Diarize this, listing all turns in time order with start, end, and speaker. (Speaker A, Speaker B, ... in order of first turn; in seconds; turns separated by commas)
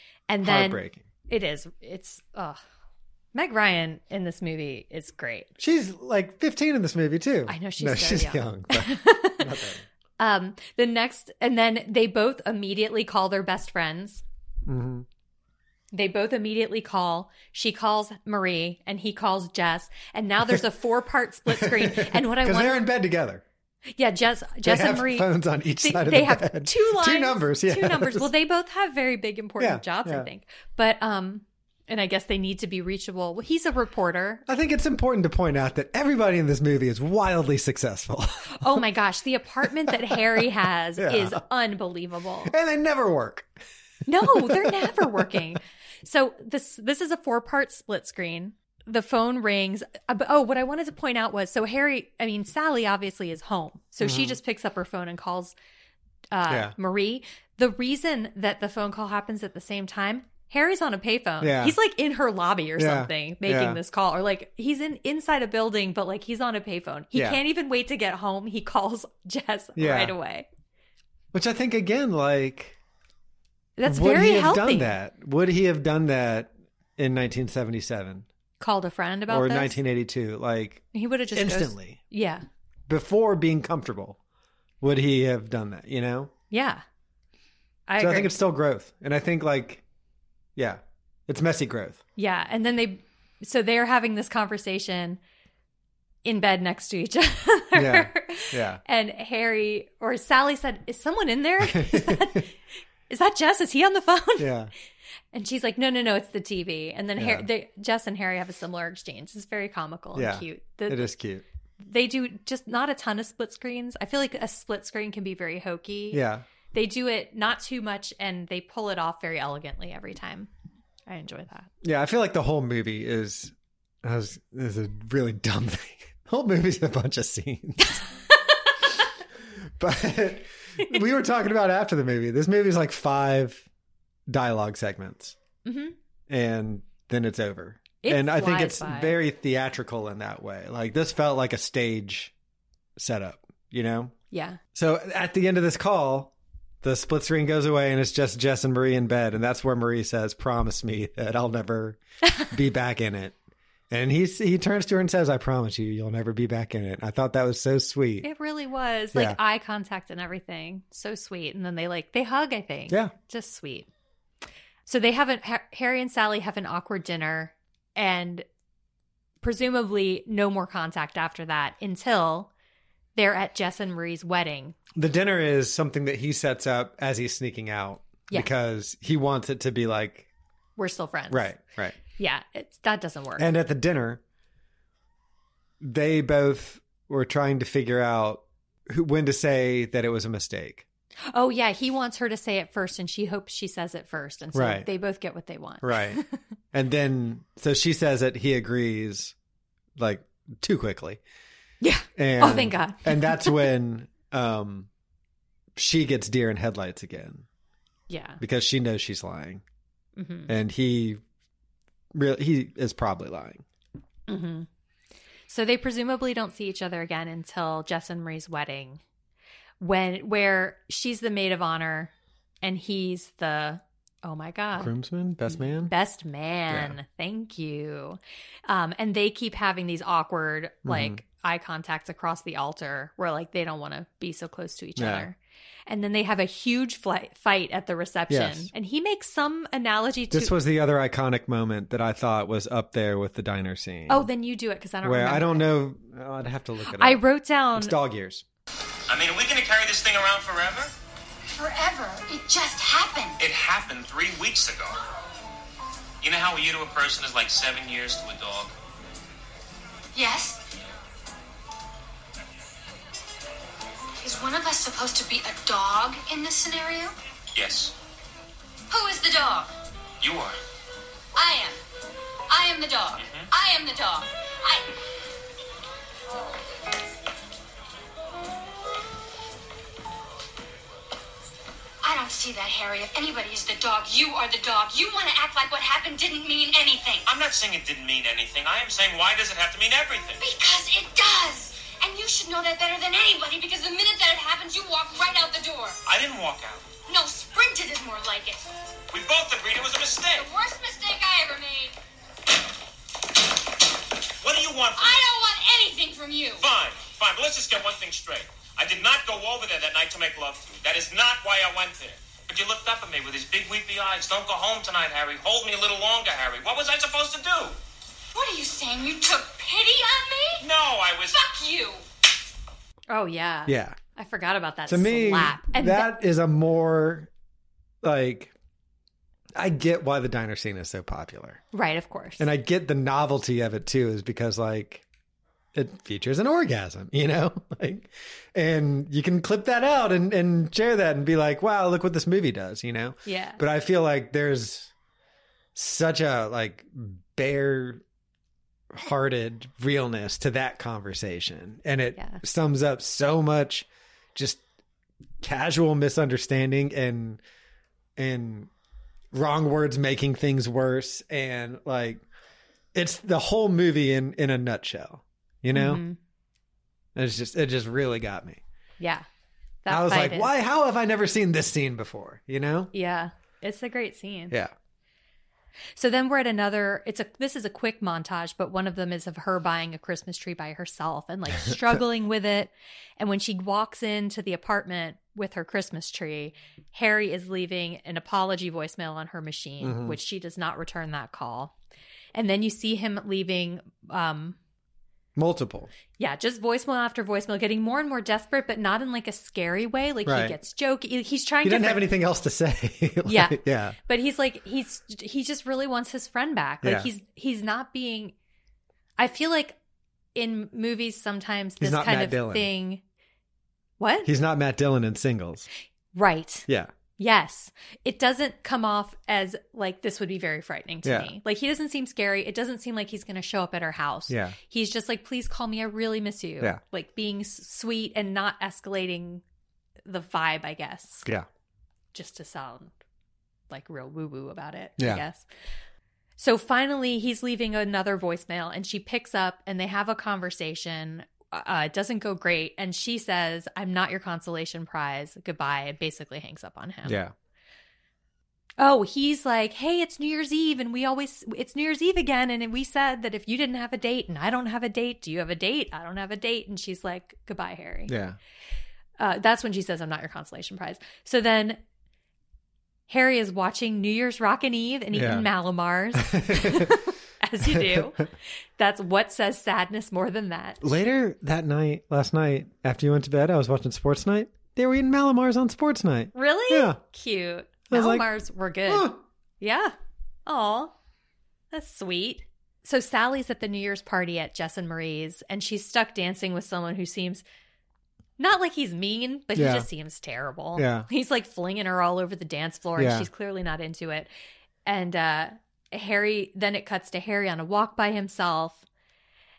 Speaker A: 0.3-2.6, Speaker B: 0.4-1.0, Speaker A: 3.3-5.5, Speaker B: 5.6-9.8, Speaker A: 7.5-9.5, Speaker A: 10.2-14.2, Speaker B: 14.7-15.1, Speaker A: 15.9-22.9, Speaker B: 21.5-23.4, Speaker A: 23.9-34.4, Speaker B: 24.6-28.3, Speaker B: 29.6-30.3, Speaker B: 34.5-38.9, Speaker A: 38.5-42.5, Speaker B: 39.7-40.4, Speaker B: 41.0-41.4, Speaker B: 42.5-43.5, Speaker A: 44.0-55.5, Speaker B: 44.2-45.3, Speaker B: 54.0-54.4, Speaker A: 56.3-70.5, Speaker B: 56.5-56.7, Speaker B: 61.4-61.8, Speaker B: 62.8-63.8, Speaker B: 67.1-67.4, Speaker B: 69.8-70.1, Speaker B: 71.3-72.8, Speaker A: 73.8-75.0, Speaker B: 73.8-78.2, Speaker A: 78.6-79.8, Speaker B: 79.3-82.0, Speaker A: 80.9-82.4, Speaker B: 82.9-84.2, Speaker B: 84.8-86.3, Speaker A: 86.5-86.8, Speaker A: 87.9-88.3, Speaker B: 88.0-89.8, Speaker B: 90.5-92.0, Speaker A: 92.2-95.2, Speaker A: 96.2-102.5, Speaker B: 97.7-98.8, Speaker B: 101.6-102.4, Speaker A: 103.1-104.5, Speaker B: 104.4-104.7, Speaker A: 105.3-111.1, Speaker B: 107.2-107.5, Speaker B: 110.1-111.4, Speaker A: 111.8-116.2, Speaker B: 116.1-116.4, Speaker A: 116.7-120.5, Speaker A: 121.1-121.7, Speaker B: 121.8-128.0, Speaker A: 127.8-128.7, Speaker B: 129.8-133.7, Speaker B: 134.3-135.3, Speaker A: 135.6-135.9, Speaker B: 136.3-142.3, Speaker A: 138.0-139.2, Speaker B: 143.0-144.1, Speaker A: 144.3-144.6, Speaker B: 144.7-153.3, Speaker B: 153.9-158.3, Speaker A: 158.2-163.9, Speaker B: 159.1-159.4, Speaker A: 164.8-168.4, Speaker A: 169.4-172.5, Speaker A: 173.2-174.8, Speaker B: 174.9-180.3, Speaker A: 180.8-181.5, Speaker B: 181.3-182.0, Speaker A: 182.2-183.5, Speaker B: 183.4-184.2, Speaker B: 185.8-190.8, Speaker A: 191.3-196.4, Speaker B: 194.5-194.9, Speaker B: 195.8-196.2, Speaker B: 196.7-199.3, Speaker B: 199.9-201.2, Speaker A: 201.8-203.7, Speaker B: 202.2-204.9, Speaker B: 205.7-207.4, Speaker A: 208.1-208.4, Speaker B: 208.4-209.6, Speaker A: 210.2-210.5, Speaker B: 210.5-211.2, Speaker B: 212.1-213.6, Speaker A: 214.3-214.7, Speaker A: 215.5-219.0, Speaker A: 219.8-224.9, Speaker B: 224.7-225.9, Speaker A: 225.5-240.6, Speaker B: 226.7-227.0, Speaker B: 230.8-231.2, Speaker B: 235.0-235.3, Speaker B: 238.3-238.7, Speaker B: 240.3-244.3, Speaker A: 244.1-245.6, Speaker B: 245.0-247.2, Speaker A: 246.9-247.9, Speaker B: 247.7-248.4, Speaker C: 249.1-250.9, Speaker D: 251.5-253.4, Speaker C: 253.4-255.0, Speaker C: 256.2-258.7, Speaker D: 260.1-260.6, Speaker D: 264.2-267.1, Speaker C: 267.5-267.9, Speaker D: 268.9-269.7, Speaker C: 270.2-270.6, Speaker D: 271.3-271.8, Speaker D: 272.5-274.9, Speaker C: 273.2-273.5, Speaker D: 282.0-287.3, Speaker C: 287.2-290.4, Speaker D: 290.4-296.0, Speaker C: 296.0-296.9, Speaker D: 297.1-298.7, Speaker C: 299.1-300.5, Speaker D: 300.3-301.9, Speaker C: 304.4-305.2, Speaker D: 304.9-306.7, Speaker C: 306.6-317.8, Speaker D: 318.3-320.7, Speaker C: 320.6-321.4, Speaker D: 321.3-322.0, Speaker A: 323.1-326.1, Speaker B: 323.7-324.0, Speaker B: 324.9-327.3, Speaker B: 328.0-328.5, Speaker B: 329.6-331.6, Speaker A: 331.7-332.5, Speaker B: 332.4-335.0, Speaker B: 335.7-344.9, Speaker A: 343.2-343.6, Speaker B: 345.7-348.0, Speaker B: 348.9-354.6, Speaker A: 352.1-352.4, Speaker B: 355.4-357.4, Speaker B: 358.2-358.7, Speaker B: 359.3-362.2, Speaker B: 362.9-366.0, Speaker A: 365.7-366.2, Speaker B: 367.1-368.6, Speaker A: 369.0-369.2, Speaker A: 369.8-370.5, Speaker B: 369.9-372.9, Speaker A: 372.9-374.6, Speaker A: 375.9-391.7, Speaker B: 381.6-382.0, Speaker B: 389.8-390.2, Speaker A: 392.3-394.6, Speaker B: 395.4-395.9, Speaker A: 396.2-402.1, Speaker B: 400.2-400.6, Speaker B: 401.6-404.0, Speaker A: 403.2-408.3, Speaker B: 406.8-407.1, Speaker A: 409.2-409.8, Speaker A: 410.3-413.0, Speaker B: 411.8-412.7, Speaker A: 414.0-414.3, Speaker B: 414.2-415.7, Speaker A: 416.1-429.4, Speaker B: 421.0-421.3, Speaker B: 424.3-424.6, Speaker A: 430.1-431.3, Speaker A: 432.1-432.9, Speaker A: 433.7-435.4, Speaker B: 435.0-435.2, Speaker A: 436.4-447.2, Speaker B: 447.0-447.3, Speaker A: 448.8-458.1, Speaker B: 458.1-458.4, Speaker A: 459.2-461.8, Speaker A: 463.1-470.8, Speaker B: 465.1-465.5, Speaker B: 466.1-467.0, Speaker B: 467.6-468.1, Speaker B: 470.8-477.0, Speaker A: 476.3-479.9, Speaker B: 477.9-478.3, Speaker B: 478.9-479.2, Speaker A: 480.4-480.9, Speaker A: 481.7-487.4, Speaker A: 488.4-494.3, Speaker B: 489.5-489.9, Speaker B: 490.8-491.1, Speaker B: 493.0-493.3, Speaker A: 494.9-498.8